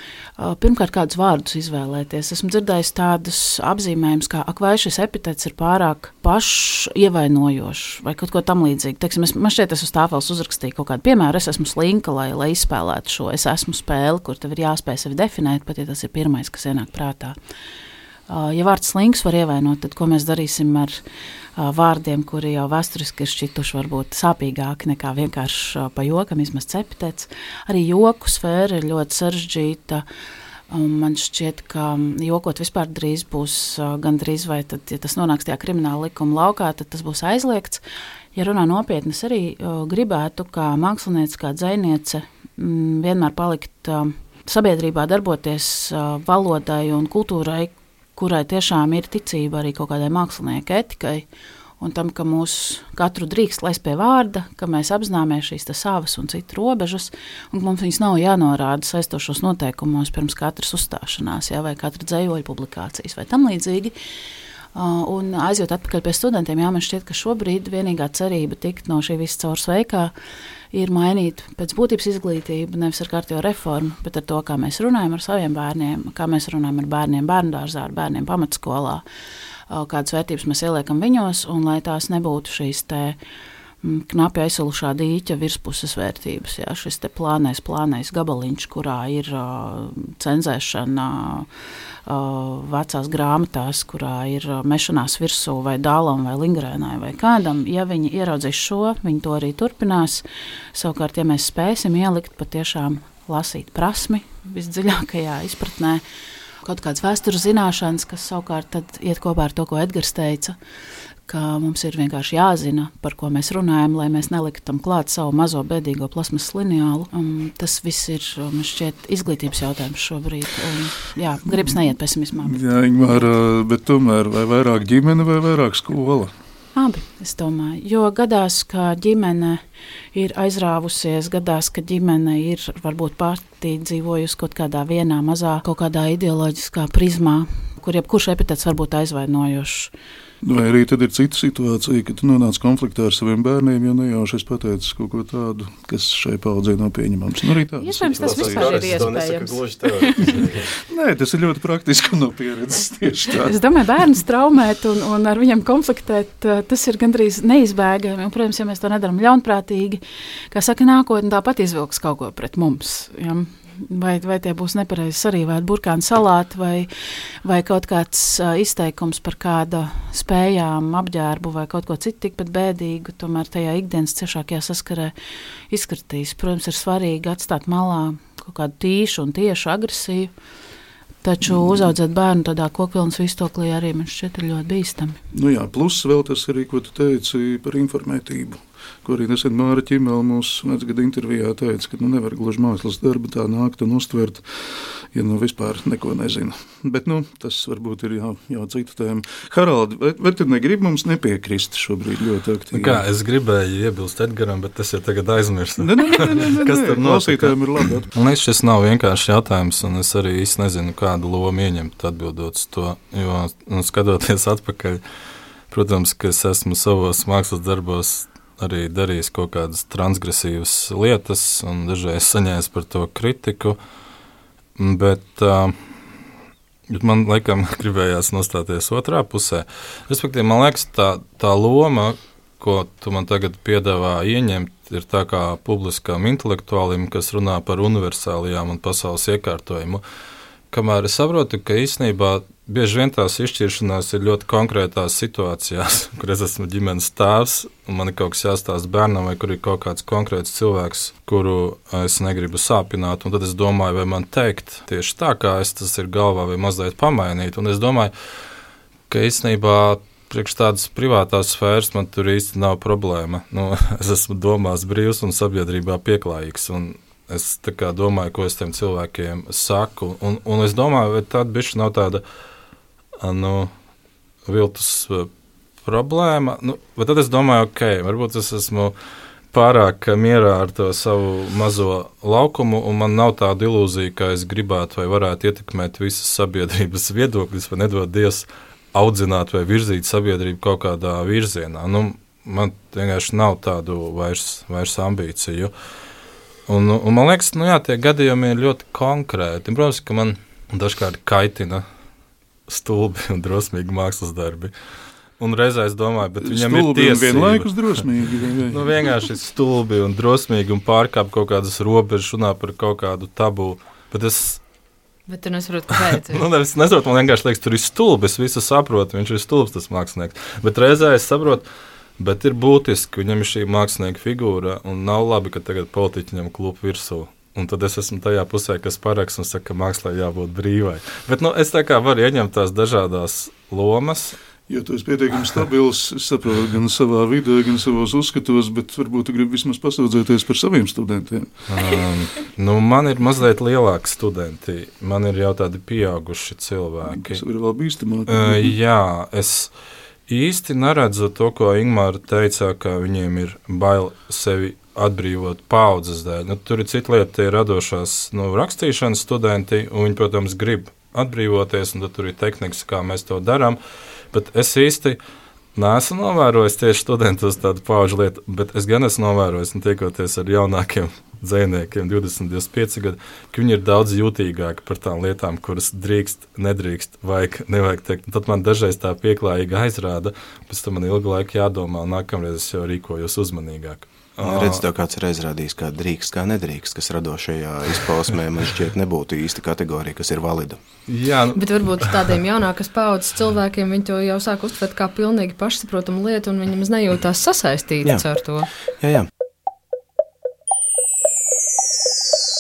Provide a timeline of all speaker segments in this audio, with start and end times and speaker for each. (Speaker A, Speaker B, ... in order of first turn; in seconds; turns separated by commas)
Speaker A: 0.4-17.4, Speaker A: 18.3-21.0, Speaker A: 21.6-30.0, Speaker A: 30.7-37.8, Speaker A: 38.3-51.3, Speaker A: 51.8-64.0, Speaker A: 64.7-70.1, Speaker A: 70.7-79.0, Speaker A: 79.7-83.2, Speaker A: 83.8-91.5, Speaker A: 92.1-106.0, Speaker A: 106.6-110.6, Speaker A: 111.3-123.2, Speaker B: 121.5-121.8, Speaker B: 122.4-126.3, Speaker A: 126.7-139.9, Speaker B: 140.4-149.1, Speaker A: 147.8-150.3, Speaker C: 148.1-150.6, Speaker B: 150.9-153.6, Speaker A: 153.4-166.9, Speaker A: 167.4-175.1, Speaker A: 175.7-180.3, Speaker A: 181.2-185.2, Speaker B: 181.4-181.9, Speaker B: 185.3-203.0, Speaker D: 202.7-215.0, Speaker B: 205.8-208.1, Speaker D: 215.7-223.8, Speaker D: 224.8-225.8, Speaker D: 226.9-240.0, Speaker D: 240.7-258.1, Speaker D: 259.1-272.2, Speaker D: 273.2-273.7, Speaker D: 274.5-275.3, Speaker D: 275.8-278.9, Speaker D: 279.5-295.7, Speaker D: 296.7-301.9, Speaker D: 302.7-304.7, Speaker D: 305.4-308.1, Speaker B: 306.4-309.1, Speaker D: 308.7-314.6, Speaker E: 315.3-316.4, Speaker D: 315.9-321.7, Speaker D: 322.2-334.4, Speaker B: 334.7-341.6, Speaker D: 341.7-347.4, Speaker B: 347.1-348.8, Speaker D: 348.3-349.7, Speaker D: 350.3-363.8, Speaker D: 364.3-365.2, Speaker D: 365.8-384.8, Speaker C: 384.4-390.8, Speaker D: 391.1-392.1, Speaker E: 391.5-398.7, Speaker C: 399.0-399.3